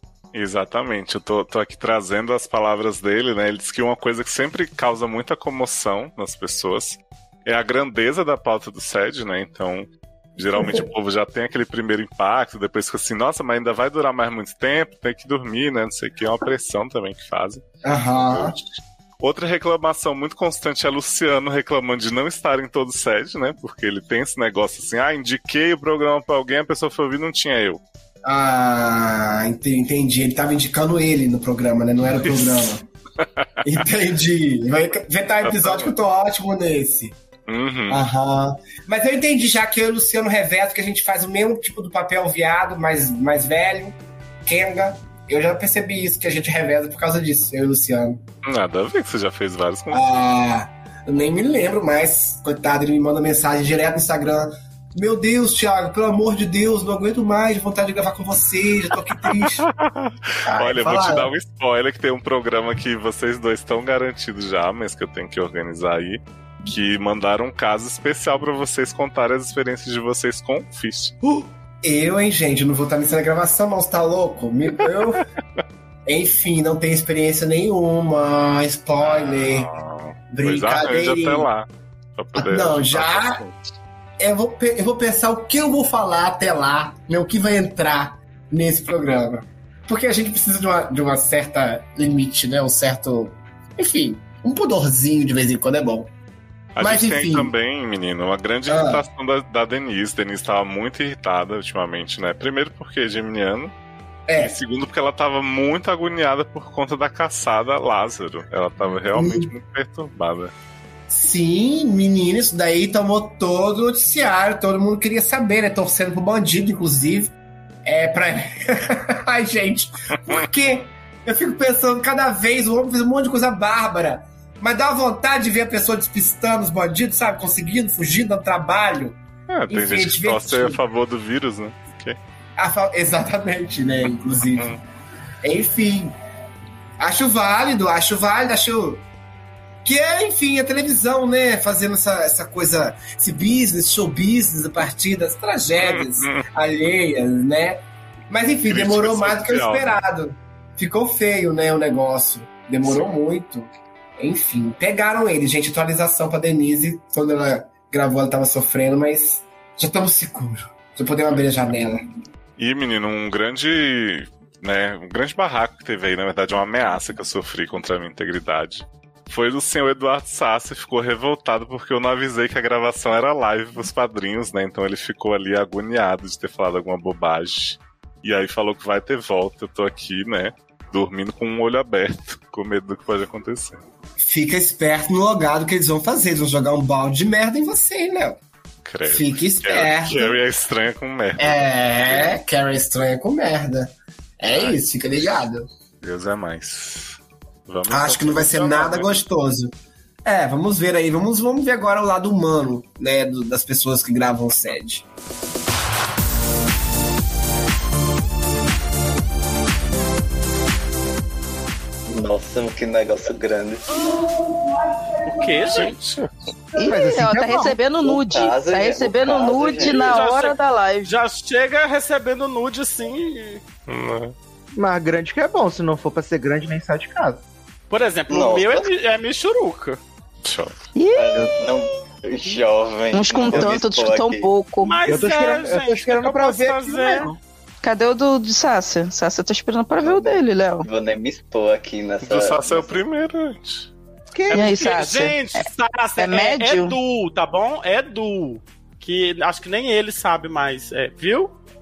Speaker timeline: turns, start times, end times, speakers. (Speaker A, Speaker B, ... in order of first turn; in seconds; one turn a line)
Speaker A: 0.3-17.6
Speaker B: 17.8-18.6
Speaker A: 18.1-18.6
Speaker A: 19.2-27.8
Speaker B: 28.2-32.9
Speaker A: 32.2-32.6
Speaker B: 33.6-37.1
Speaker A: 35.4-35.9
Speaker A: 37.5-38.0
Speaker B: 37.9-48.2
Speaker A: 48.4-50.0
Speaker B: 49.9-59.6
Speaker A: 59.8-71.1
Speaker B: 60.5-61.3
Speaker B: 71.2-75.2
Speaker B: 76.0-79.7
Speaker A: 79.0-83.6
Speaker B: 80.3-81.5
Speaker B: 82.3-83.4
Speaker B: 84.2-96.1
Speaker A: 96.8-103.7
Speaker B: 96.8-97.5
Speaker B: 98.7-99.0
Speaker B: 104.3-104.5
Speaker A: 104.4-110.5
Speaker B: 109.1-109.5
Speaker B: 111.1-117.3
Speaker B: 117.8-130.8
Speaker A: 129.5-132.2
Speaker B: 132.6-134.8
Speaker B: 135.4-136.1
Speaker B: 137.0-139.0
Speaker B: 139.8-162.0
Speaker A: 145.8-146.4
Speaker A: 148.7-150.0
Speaker A: 162.6-183.8
Speaker B: 184.2-188.4
Speaker A: 188.8-192.4
Speaker B: 189.1-190.4
Speaker B: 191.4-195.7
Speaker A: 194.5-194.8
Speaker A: 196.0-199.2
Speaker B: 197.9-199.7
Speaker B: 200.2-205.0
Speaker C: 212.1-214.0
Speaker D: 215.2-216.0
Speaker A: 215.7-216.3
Speaker E: 216.8-221.1
Speaker F: 216.8-217.8
Speaker C: 218.0-220.3
Speaker D: 219.7-223.6
Speaker A: 223.9-224.3
Speaker F: 224.7-227.4
Speaker D: 227.9-230.0
Speaker C: 228.3-228.9
Speaker A: 230.4-230.7
Speaker E: 230.9-231.7
Speaker C: 231.1-234.5
Speaker E: 233.1-235.0
Speaker D: 234.8-237.3
Speaker F: 235.1-237.3
Speaker E: 237.8-240.9
Speaker C: 240.0-243.0
Speaker A: 242.2-243.9
Speaker F: 244.3-244.7
Speaker D: 244.5-251.6
Speaker E: 244.5-245.6
Speaker E: 246.2-247.0